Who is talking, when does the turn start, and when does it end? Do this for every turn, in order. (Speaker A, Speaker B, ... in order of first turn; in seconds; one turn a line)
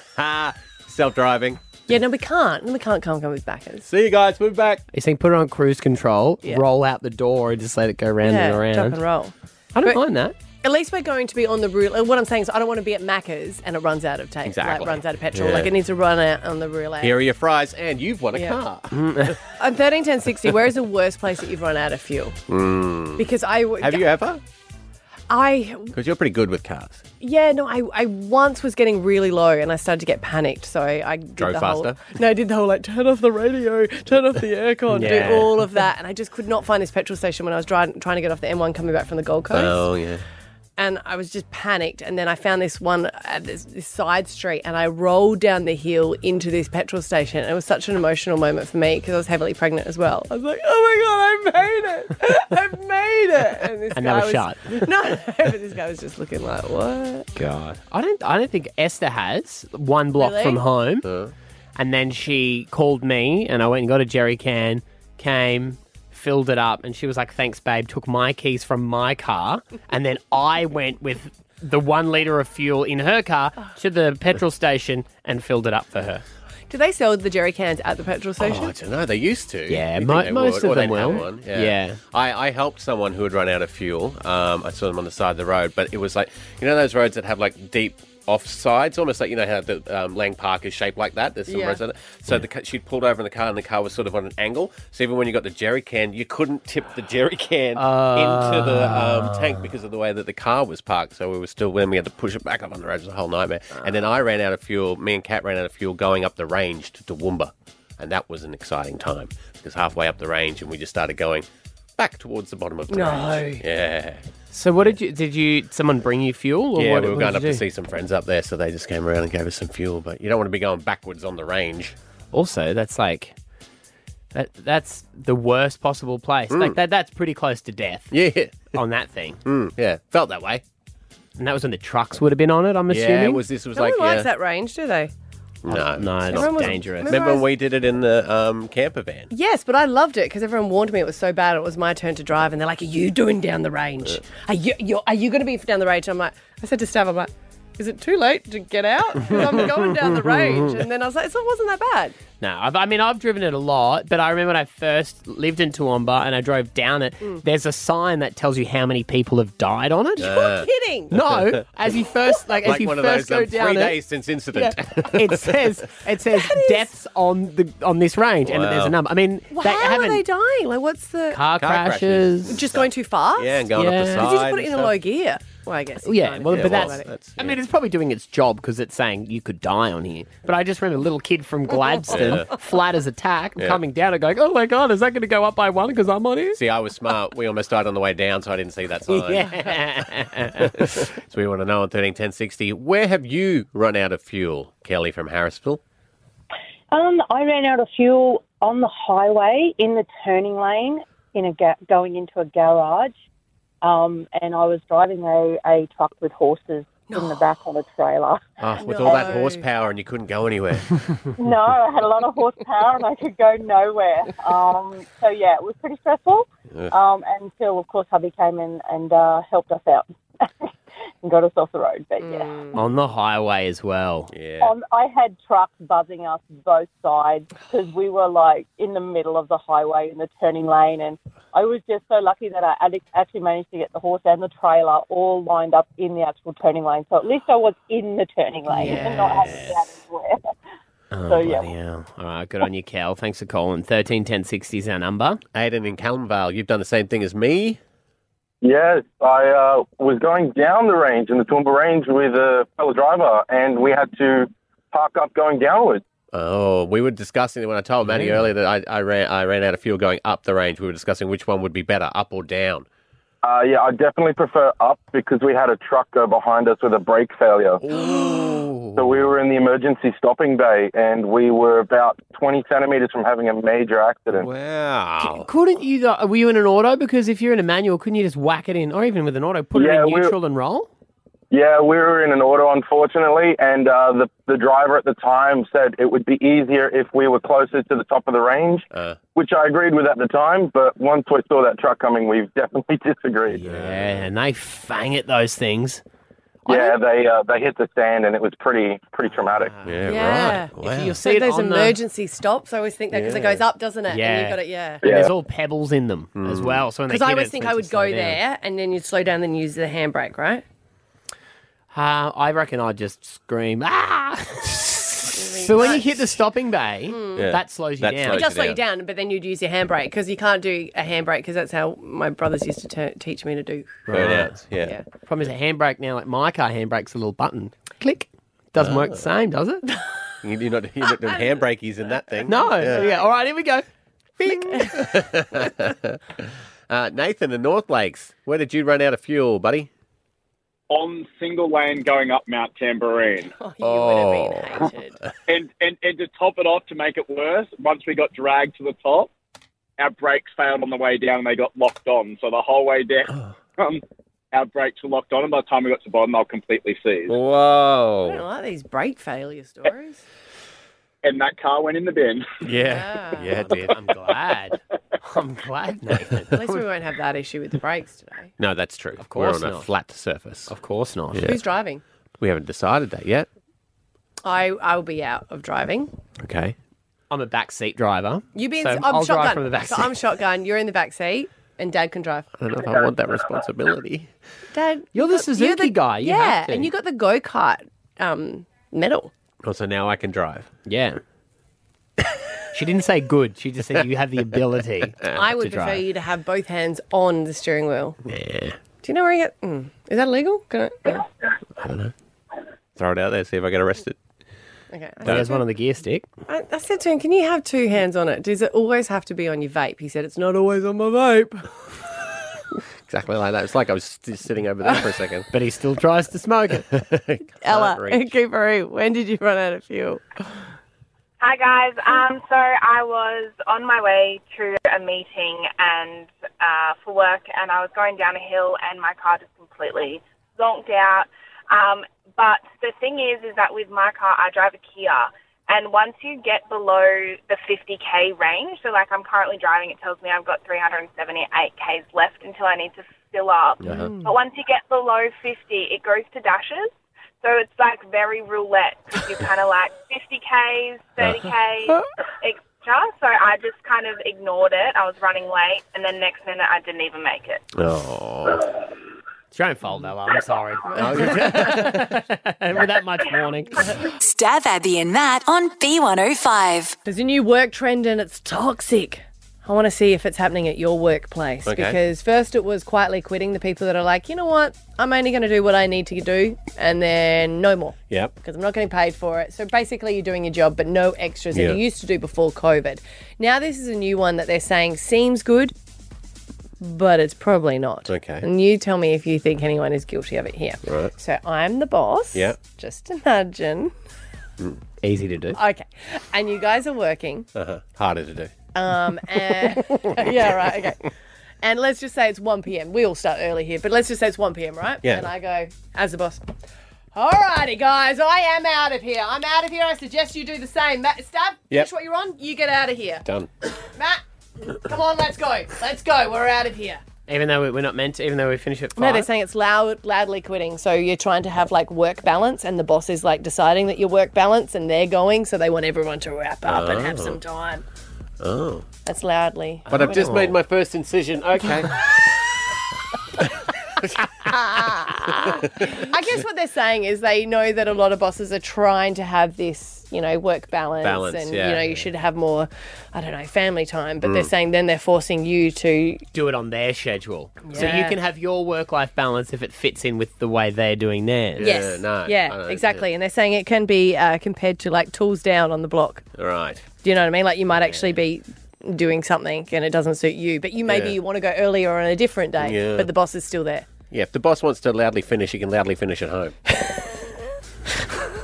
Speaker A: 0.1-1.6
Speaker B: 1.9-3.9
Speaker A: 3.8-4.8
Speaker C: 4.9-9.0
Speaker B: 8.2-10.0
Speaker C: 9.7-10.3
Speaker B: 10.6-17.2
Speaker A: 14.4-15.7
Speaker A: 17.0-19.4
Speaker B: 18.3-18.6
Speaker C: 18.9-19.4
Speaker B: 19.6-22.4
Speaker A: 22.5-24.4
Speaker B: 23.1-24.1
Speaker B: 25.3-25.9
Speaker A: 25.9-27.0
Speaker B: 27.2-39.9
Speaker A: 31.4-32.1
Speaker C: 34.9-35.6
Speaker A: 39.5-40.2
Speaker B: 40.8-57.3
Speaker C: 53.9-54.8
Speaker C: 57.3-61.1
Speaker B: 60.1-60.6
Speaker A: 61.0-61.3
Speaker C: 61.8-76.2
Speaker B: 76.7-78.7
Speaker A: 78.4-111.5
Speaker C: 79.7-82.0
Speaker B: 91.5-91.8
Speaker C: 97.8-99.6
Speaker A: 112.0-114.2
Speaker B: 112.9-113.6
Speaker C: 114.5-117.6
Speaker A: 116.7-121.9
Speaker C: 122.3-123.3
Speaker C: 124.3-128.1
Speaker A: 126.5-126.8
Speaker A: 128.1-128.7
Speaker C: 128.7-129.4
Speaker A: 129.4-130.6
Speaker C: 131.4-133.4
Speaker A: 132.9-134.3
Speaker B: 133.7-135.1
Speaker A: 135.6-139.3
Speaker C: 135.7-137.2
Speaker B: 136.3-137.4
Speaker B: 139.3-152.2
Speaker C: 149.4-149.6
Speaker C: 152.4-160.4
Speaker A: 160.2-160.7
Speaker B: 160.2-161.1
Speaker C: 161.1-164.0
Speaker A: 161.2-161.6
Speaker A: 162.6-165.7
Speaker C: 165.1-170.2
Speaker B: 166.3-166.9
Speaker A: 168.4-169.0
Speaker B: 169.5-171.4
Speaker C: 171.3-172.6
Speaker A: 171.5-174.9
Speaker B: 172.5-177.1
Speaker C: 173.7-174.3
Speaker C: 176.0-186.6
Speaker A: 176.5-177.6
Speaker A: 182.1-182.5
Speaker A: 186.5-189.9
Speaker C: 189.1-191.0
Speaker A: 190.6-195.8
Speaker D: 196.9-203.1
Speaker D: 203.8-208.6
Speaker B: 207.1-207.4
Speaker A: 208.6-211.2
Speaker B: 208.8-209.6
Speaker D: 211.4-220.7
Speaker D: 221.2-222.6
Speaker B: 222.2-222.8
Speaker C: 222.7-224.3
Speaker A: 224.3-224.7
Speaker D: 224.6-240.5
Speaker C: 238.7-239.8
Speaker A: 239.3-239.6
Speaker C: 241.1-245.4
Speaker D: 241.3-241.7
Speaker A: 245.5-247.8
Speaker E: 248.6-256.0
Speaker A: 256.3-262.9
Speaker C: 258.1-258.5
Speaker E: 263.4-267.8
Speaker A: 267.8-269.2
Speaker C: 268.1-268.5
Speaker E: 268.9-274.5
Speaker A: 274.3-275.5
Speaker C: 275.2-280.9
Speaker E: 279.7-280.3
Speaker E: 281.5-293.6
Speaker A: 288.9-289.2
Speaker A: 293.6-294.3
Speaker C: 293.6-296.0
Speaker E: 296.7-299.7
Speaker B: 296.7-296.9
Speaker C: 299.6-302.0
Speaker A: 299.8-301.2
Speaker B: 300.1-305.1
Speaker A: 303.1-303.6
Speaker C: 304.1-308.4
Speaker E: 305.1-305.3
Speaker A: 306.3-306.9
Speaker B: 307.1-310.6
Speaker C: 311.9-318.4
Speaker B: 315.3-316.4
Speaker B: 317.1-317.5
Speaker A: 317.4-318.8
Speaker B: 318.3-325.0
Speaker C: 324.1-324.6
Speaker A: 324.1-324.9
Speaker C: 325.3-329.9
Speaker A: 328.8-329.1
Speaker A: 330.4-333.1
Speaker C: 332.4-333.8
Speaker B: 332.6-333.2
Speaker A: 334.4-339.9
Speaker F: 340.9-343.5
Speaker B: 343.6-345.2
Speaker A: 343.8-344.9
Speaker F: 345.5-349.3
Speaker F: 350.0-357.3
Speaker A: 357.3-358.4
Speaker B: 358.2-360.2
Speaker F: 361.2-362.4
Speaker A: 362.6-364.0
Speaker B: 362.8-363.5
Speaker C: 363.5-366.8
Speaker B: 366.5-368.5
Speaker A: 368.6-370.7
Speaker C: 369.2-369.9
Speaker C: 370.7-371.5
Speaker A: 371.3-371.6
Speaker B: 371.4-372.0
Speaker A: 372.4-373.5
Speaker B: 374.4-376.1
Speaker A: 376.4-376.7
Speaker C: 377.3-380.1
Speaker B: 378.6-382.5
Speaker A: 382.6-384.3
Speaker B: 384.7-389.3
Speaker C: 385.1-386.9
Speaker A: 389.6-390.7
Speaker C: 390.9-391.2
Speaker C: 392.7-396.0
Speaker B: 395.3-398.2
Speaker A: 398.3-398.8
Speaker B: 399.0-401.3
Speaker A: 401.8-402.1
Speaker A: 402.9-404.2
Speaker B: 404.9-405.6
Speaker C: 405.2-406.3
Speaker A: 405.3-405.5
Speaker B: 406.5-411.7
Speaker A: 413.1-415.4
Speaker C: 415.5-416.9
Speaker A: 416.9-418.3
Speaker B: 417.6-420.2
Speaker G: 421.4-457.6
Speaker A: 443.8-444.1
Speaker B: 443.9-444.3
Speaker A: 457.7-458.7
Speaker C: 459.5-464.0
Speaker A: 460.9-462.1
Speaker H: 464.2-466.9
Speaker B: 467.1-485.7
Speaker A: 471.6-472.0
Speaker A: 481.6-481.8
Speaker B: 486.8-493.9
Speaker A: 488.1-488.4
Speaker A: 490.9-491.1
Speaker C: 495.0-495.6
Speaker B: 495.6-497.5
Speaker A: 497.6-498.5
Speaker B: 498.7-501.1
Speaker A: 500.1-500.9
Speaker B: 501.6-506.5
Speaker B: 507.1-513.3
Speaker A: 513.2-513.5
Speaker B: 513.8-517.0
Speaker C: 517.3-519.3
Speaker B: 519.0-527.8
Speaker A: 526.6-527.4
Speaker A: 528.4-528.9
Speaker B: 529.0-529.9
Speaker C: 529.9-530.6
Speaker A: 529.9-532.3
Speaker A: 534.0-536.0
Speaker B: 534.5-546.2
Speaker A: 541.0-541.9
Speaker A: 544.2-544.5
Speaker C: 546.3-551.8
Speaker B: 547.6-548.2
Speaker A: 551.6-553.0
Speaker B: 551.6-556.2
Speaker A: 556.4-556.9
Speaker B: 557.0-563.9
Speaker A: 560.9-561.1
Speaker A: 562.6-563.1
Speaker A: 564.1-566.5
Speaker B: 566.8-567.3